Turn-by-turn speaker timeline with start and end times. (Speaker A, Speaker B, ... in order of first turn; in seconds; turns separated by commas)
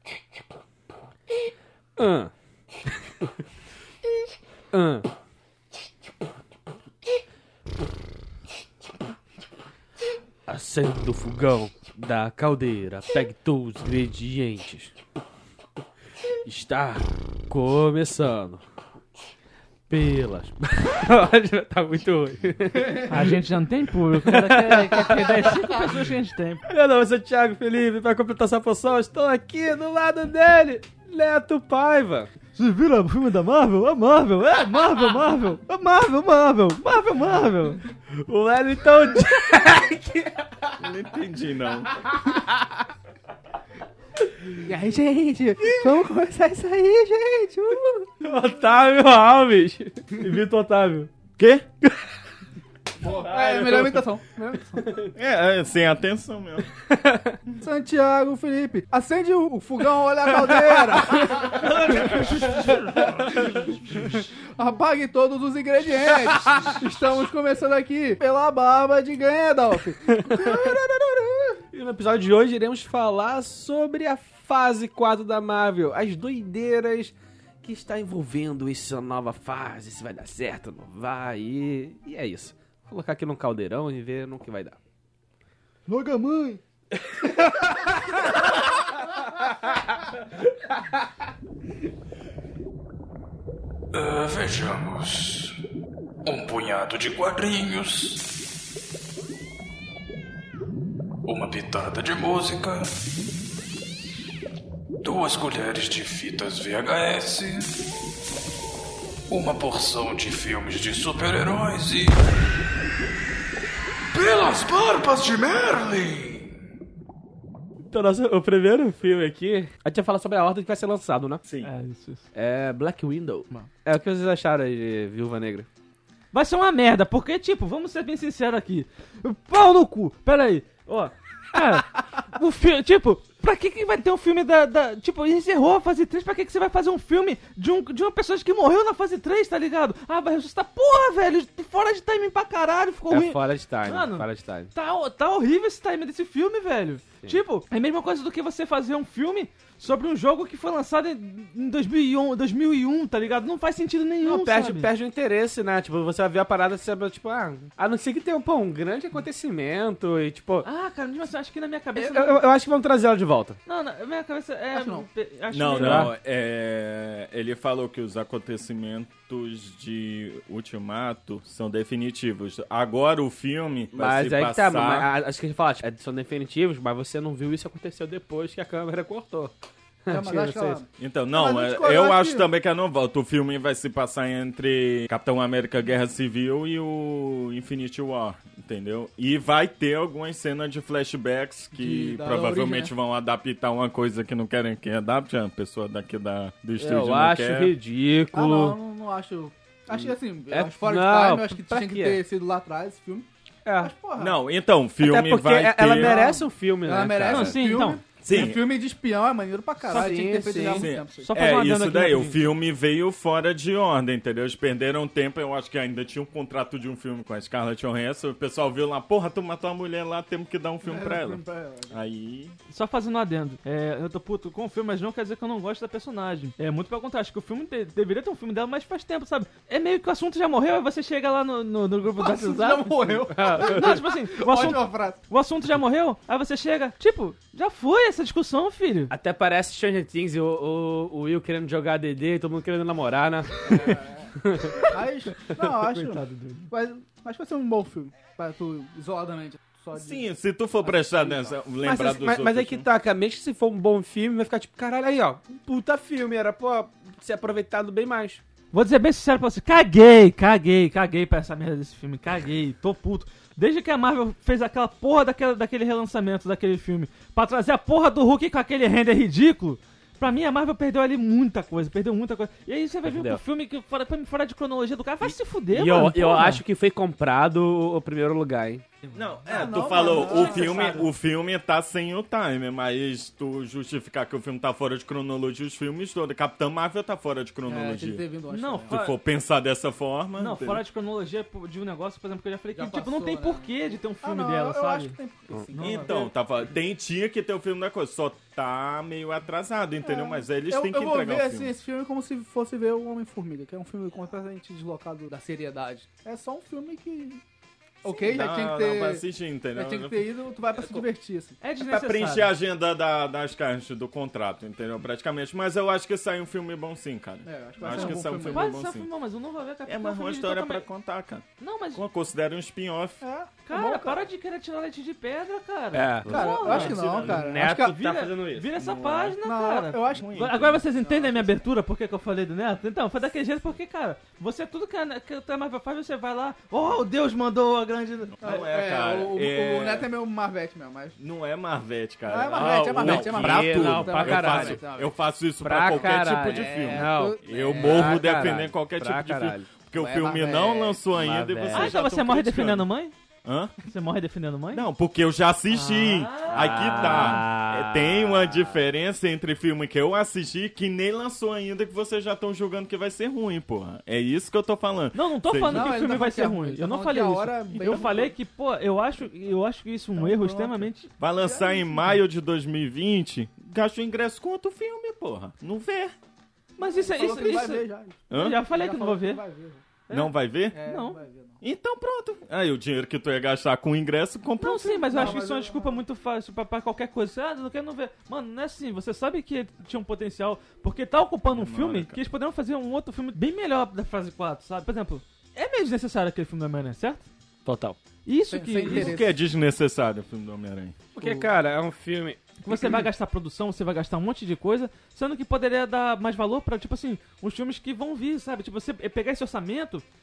Speaker A: 1.9-2.3, Speaker A: 4.7-5.1, Speaker A: 10.4-14.9, Speaker A: 16.4-18.6, Speaker A: 19.9-23.4, Speaker B: 23.1-26.6, Speaker A: 24.2-25.6, Speaker A: 26.7-32.3, Speaker B: 32.5-37.8, Speaker A: 38.1-40.5, Speaker C: 40.8-42.0, Speaker D: 44.6-48.1, Speaker A: 48.2-51.1, Speaker C: 51.4-51.6, Speaker D: 53.0-54.9, Speaker C: 53.3-54.0, Speaker A: 54.7-55.1, Speaker C: 55.1-56.7, Speaker A: 56.9-57.4, Speaker D: 57.6-71.6, Speaker B: 61.2-63.2, Speaker A: 66.5-66.8, Speaker A: 70.1-70.8, Speaker A: 71.7-84.8, Speaker D: 85.9-86.6, Speaker E: 93.9-95.5, Speaker E: 96.2-98.2, Speaker E: 101.2-102.9, Speaker E: 105.0-107.7, Speaker E: 109.3-112.2, Speaker E: 114.1-116.5, Speaker A: 117.8-121.4, Speaker C: 121.4-121.7, Speaker B: 121.6-122.2, Speaker A: 122.3-125.7, Speaker B: 126.3-154.9, Speaker A: 143.1-144.7, Speaker A: 154.2-160.7, Speaker B: 160.6-162.4, Speaker A: 161.9-163.6, Speaker B: 163.7-166.1, Speaker D: 164.7-165.1, Speaker C: 165.5-175.1, Speaker A: 165.8-166.1, Speaker A: 173.9-179.5, Speaker A: 180.0-180.8, Speaker D: 180.1-182.5, Speaker C: 181.0-197.7, Speaker D: 191.7-192.9, Speaker A: 196.8-198.8, Speaker D: 198.3-203.3, Speaker A: 199.9-202.2, Speaker A: 203.6-203.9, Speaker D: 203.8-204.4, Speaker C: 204.2-206.2, Speaker A: 205.0-207.7, Speaker D: 205.9-211.3, Speaker B: 207.3-208.0, Speaker C: 208.2-208.7, Speaker A: 209.8-210.9, Speaker B: 209.9-212.4, Speaker C: 210.7-222.6, Speaker D: 220.8-222.0, Speaker B: 222.7-239.1, Speaker D: 232.1-235.2, Speaker A: 233.3-234.0, Speaker A: 239.1-244.8, Speaker D: 243.6-251.6, Speaker B: 245.6-246.7, Speaker C: 249.9-252.8, Speaker A: 251.8-258.4, Speaker B: 258.7-276.6, Speaker A: 273.1-273.4, Speaker A: 275.7-278.8, Speaker B: 279.1-281.1, Speaker C: 279.1-288.2, Speaker D: 279.5-281.1, Speaker D: 287.6-289.0, Speaker B: 288.5-289.2, Speaker C: 288.9-290.8, Speaker B: 290.4-295.2, Speaker D: 292.7-296.3, Speaker B: 295.7-296.2, Speaker C: 295.8-301.7, Speaker D: 300.0-307.4, Speaker D: 308.0-311.6, Speaker C: 308.1-311.0, Speaker B: 311.6-312.5, Speaker C: 311.8-319.1, Speaker D: 317.4-318.6, Speaker B: 317.8-320.8, Speaker C: 319.9-323.2, Speaker B: 321.6-322.0, Speaker D: 323.2-324.2, Speaker B: 323.6-338.4, Speaker A: 325.9-328.7, Speaker D: 326.3-327.9, Speaker C: 326.7-327.3, Speaker C: 328.7-329.4, Speaker D: 329.4-330.3, Speaker C: 330.1-330.8, Speaker D: 331.0-331.6, Speaker C: 338.4-340.1, Speaker D: 338.4-341.2, Speaker C: 341.2-352.9, Speaker D: 342.3-345.1, Speaker A: 342.5-344.8, Speaker A: 345.6-349.7, Speaker D: 345.8-348.2, Speaker D: 349.9-351.0, Speaker A: 351.1-352.0, Speaker B: 351.7-353.1, Speaker C: 353.4-353.7, Speaker B: 353.8-354.9, Speaker C: 354.7-365.9, Speaker B: 355.7-357.4, Speaker A: 356.5-358.7, Speaker B: 365.1-371.1, Speaker D: 365.7-368.3, Speaker C: 367.7-368.2, Speaker D: 370.1-370.9, Speaker C: 371.2-376.1, Speaker D: 371.4-372.1, Speaker B: 376.8-379.4, Speaker D: 376.8-379.8, Speaker C: 378.3-378.6, Speaker B: 380.1-381.2, Speaker C: 380.1-380.8, Speaker D: 380.7-381.6, Speaker C: 381.6-385.4, Speaker B: 384.6-397.3, Speaker D: 385.1-386.0, Speaker C: 391.5-392.2, Speaker A: 397.6-398.0, Speaker B: 398.2-399.2, Speaker D: 398.5-399.3, Speaker C: 398.9-400.9, Speaker A: 401.1-402.6, Speaker B: 402.6-410.0